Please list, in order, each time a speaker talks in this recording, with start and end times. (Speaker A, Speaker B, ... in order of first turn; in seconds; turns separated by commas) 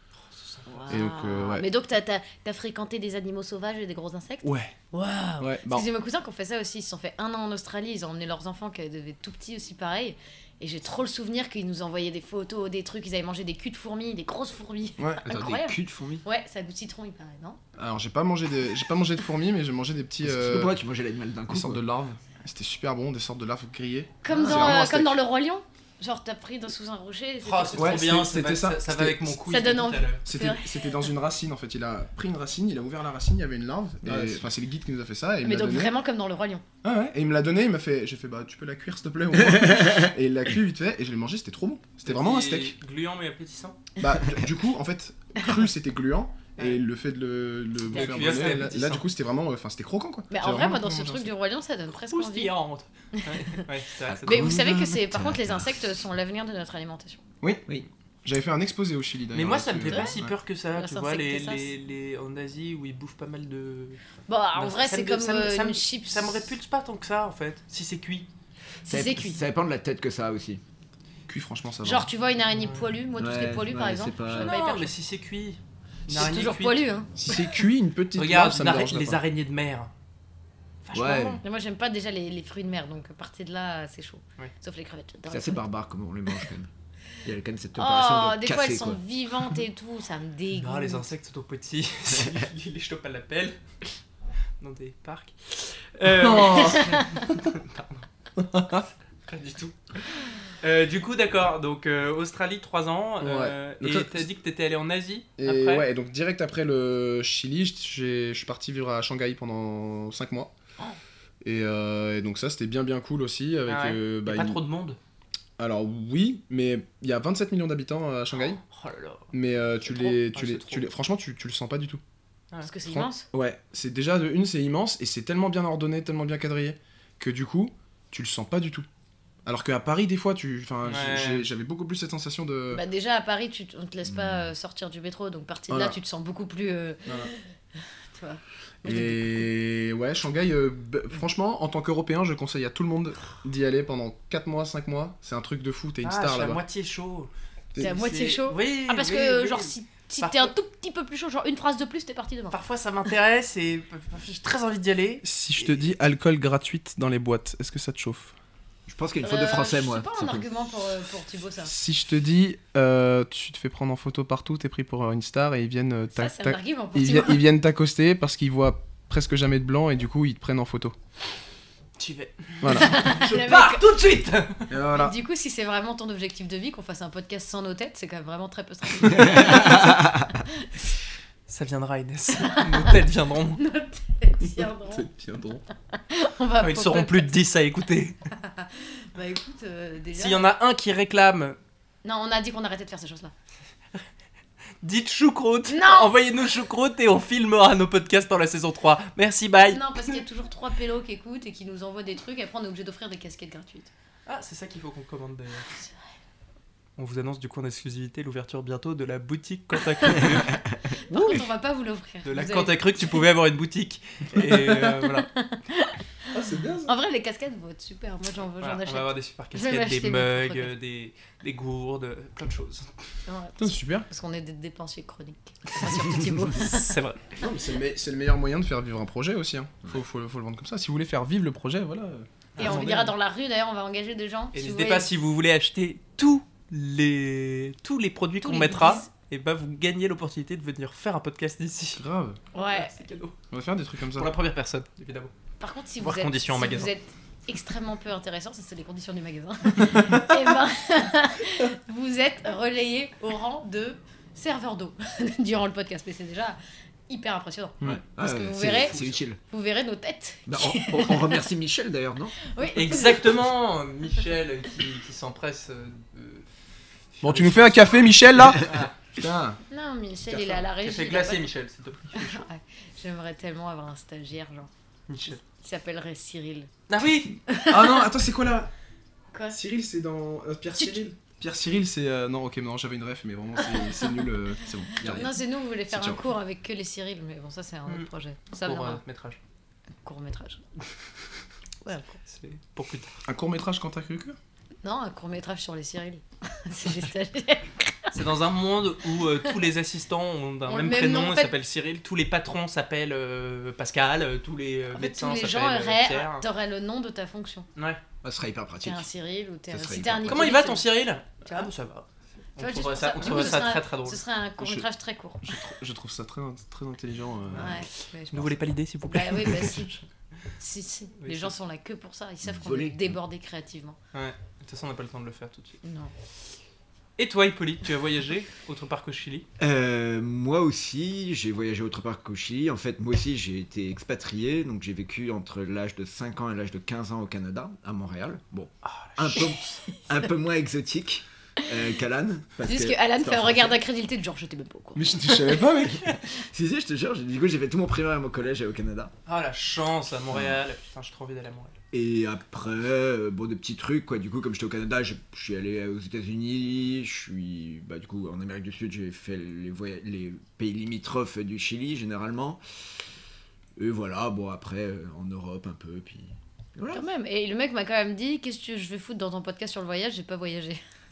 Speaker A: 0.2-0.9, Speaker B: 0.7-17.6, Speaker C: 0.9-1.7, Speaker C: 4.4-4.7, Speaker C: 5.4-5.9, Speaker C: 15.0-15.5, Speaker D: 15.3-16.2, Speaker C: 17.8-20.8, Speaker D: 20.2-21.8, Speaker C: 21.5-25.2, Speaker B: 24.2-28.1, Speaker A: 27.4-30.2, Speaker C: 27.7-29.4, Speaker B: 29.5-31.0, Speaker C: 30.2-35.9, Speaker D: 34.0-34.4, Speaker B: 35.4-36.6, Speaker C: 36.8-42.8, Speaker D: 39.5-40.1, Speaker A: 42.0-43.9, Speaker C: 44.0-51.3, Speaker A: 47.9-49.1, Speaker B: 50.3-52.5, Speaker A: 51.9-54.6, Speaker B: 53.1-53.6, Speaker D: 54.1-55.7, Speaker B: 54.2-57.2, Speaker C: 58.2-60.3, Speaker A: 59.3-64.0, Speaker B: 59.9-60.2, Speaker B: 60.8-61.7, Speaker B: 64.3-66.4, Speaker A: 64.6-68.3, Speaker B: 68.8-69.4, Speaker D: 68.9-70.6, Speaker C: 71.3-72.1, Speaker B: 71.8-74.9, Speaker A: 72.6-72.8, Speaker D: 73.2-74.5, Speaker A: 74.3-76.8, Speaker B: 76.1-77.3, Speaker C: 77.2-79.2, Speaker A: 78.2-79.9, Speaker A: 80.8-81.4, Speaker D: 80.9-81.4, Speaker B: 81.4-85.7, Speaker D: 85.3-86.7, Speaker D: 87.2-89.0, Speaker B: 87.8-91.1, Speaker A: 90.5-93.6, Speaker A: 94.6-98.0, Speaker C: 96.2-97.0, Speaker B: 96.6-97.0, Speaker C: 98.4-98.9, Speaker A: 99.2-105.9, Speaker C: 103.2-104.3, Speaker C: 105.4-110.5, Speaker C: 111.4-114.6, Speaker A: 113.7-115.0, Speaker C: 115.6-118.6, Speaker A: 118.4-119.3, Speaker C: 119.3-122.0, Speaker A: 119.9-120.9, Speaker B: 122.6-123.3, Speaker C: 122.9-128.9, Speaker C: 129.5-132.8, Speaker A: 130.8-131.5, Speaker B: 132.7-139.3, Speaker D: 134.1-134.4, Speaker C: 135.7-136.0, Speaker C: 137.1-137.3, Speaker C: 138.8-146.6, Speaker A: 146.0-150.5, Speaker B: 147.8-152.6, Speaker A: 152.5-155.2, Speaker C: 155.2-158.3, Speaker D: 158.9-160.5, Speaker B: 159.2-161.7, Speaker C: 161.6-171.0, Speaker B: 166.2-167.4, Speaker A: 172.0-174.7, Speaker C: 172.6-173.1, Speaker B: 172.7-173.8, Speaker C: 174.7-175.2, Speaker B: 174.9-180.0, Speaker D: 179.1-180.0, Speaker A: 181.5-183.6, Speaker B: 182.4-182.9, Speaker B: 183.6-185.1, Speaker C: 184.4-185.6, Speaker B: 185.9-187.3, Speaker A: 186.6-188.2, Speaker B: 188.3-190.5, Speaker A: 190.2-191.6, Speaker B: 192.0-193.3, Speaker A: 194.8-200.2, Speaker B: 195.7-196.1, Speaker B: 199.7-203.9, Speaker A: 204.3-205.7, Speaker A: 207.0-211.4, Speaker B: 210.9-213.2, Speaker A: 212.2-215.3, Speaker B: 215.3-216.0, Speaker C: 216.3-216.9, Speaker B: 216.8-220.7, Speaker A: 218.6-222.9, Speaker B: 223.3-227.0, Speaker C: 223.6-224.1, Speaker A: 226.5-227.2, Speaker C: 227.4-232.9, Speaker A: 232.6-233.1, Speaker B: 232.6-235.1, Speaker A: 234.5-242.0, Speaker B: 238.4-239.1, Speaker C: 241.9-242.4, Speaker B: 242.5-243.0, Speaker A: 242.7-243.4, Speaker C: 243.5-244.3, Speaker A: 244.1-245.3, Speaker B: 245.6-256.6, Speaker A: 246.0-246.9, Speaker B: 257.1-261.4, Speaker D: 257.8-259.4, Speaker D: 260.5-262.4, Speaker B: 262.4-263.3, Speaker A: 262.7-266.5, Speaker A: 267.2-268.9, Speaker C: 267.2-269.6, Speaker B: 269.7-271.5, Speaker A: 270.3-272.5, Speaker B: 272.1-274.7, Speaker A: 275.1-275.4, Speaker B: 275.4-276.7, Speaker A: 276.9-277.3, Speaker B: 277.5-278.1, Speaker C: 277.5-278.7, Speaker B: 279.3-279.6, Speaker C: 279.5-285.4, Speaker D: 285.0-285.3, Speaker B: 285.1-289.0, Speaker C: 285.9-286.2, Speaker A: 288.6-289.4, Speaker B: 290.0-290.6, Speaker B: 291.9-292.2, Speaker A: 292.3-293.2, Speaker C: 293.2-294.4, Speaker B: 294.8-298.2, Speaker A: 298.1-306.4, Speaker B: 300.7-301.5, Speaker B: 304.9-307.7, Speaker A: 307.8-308.0, Speaker D: 308.2-309.1, Speaker B: 308.8-310.9, Speaker D: 309.7-310.5, Speaker A: 310.3-314.2, Speaker B: 311.4-311.7, Speaker B: 312.6-315.6, Speaker C: 314.6-314.9, Speaker C: 315.4-317.9, Speaker B: 317.5-320.0, Speaker A: 318.3-319.9, Speaker B: 320.6-324.0, Speaker A: 321.2-321.5, Speaker D: 322.5-323.1, Speaker A: 324.1-325.8, Speaker B: 325.8-326.1, Speaker A: 327.2-329.5, Speaker D: 329.6-343.8, Speaker A: 338.8-339.8, Speaker B: 342.6-345.6, Speaker C: 344.9-346.1, Speaker D: 346.0-349.1, Speaker A: 349.3-351.8, Speaker D: 350.3-350.6, Speaker D: 351.9-362.6, Speaker D: 363.8-367.0, Speaker B: 366.9-370.8